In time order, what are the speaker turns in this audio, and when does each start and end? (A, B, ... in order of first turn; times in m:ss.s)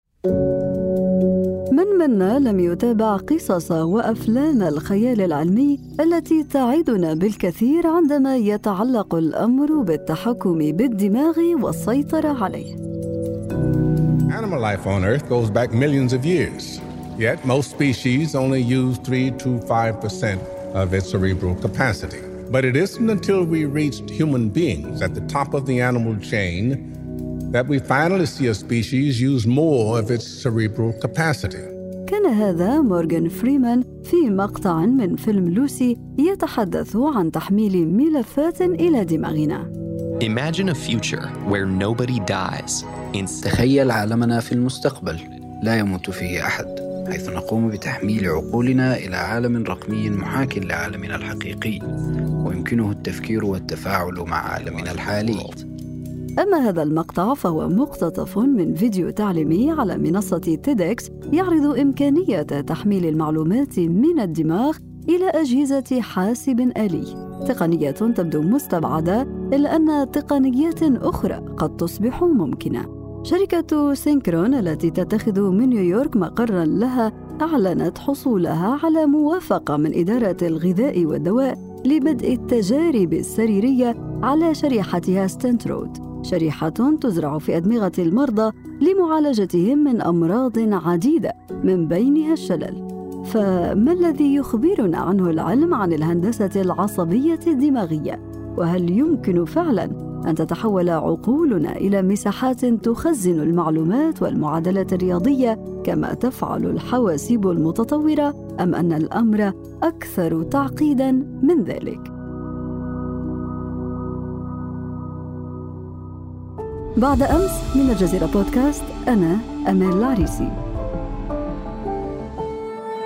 0:01.8-0:12.8 A
0:14.3-0:26.8 B
0:27.5-0:31.7 B
0:32.1-0:39.6 A
0:40.2-0:43.6 C
0:43.4-0:51.9 D
0:52.4-0:55.6 D
0:54.7-0:55.2 C
0:56.4-1:52.1 A
1:57.0-2:00.6 A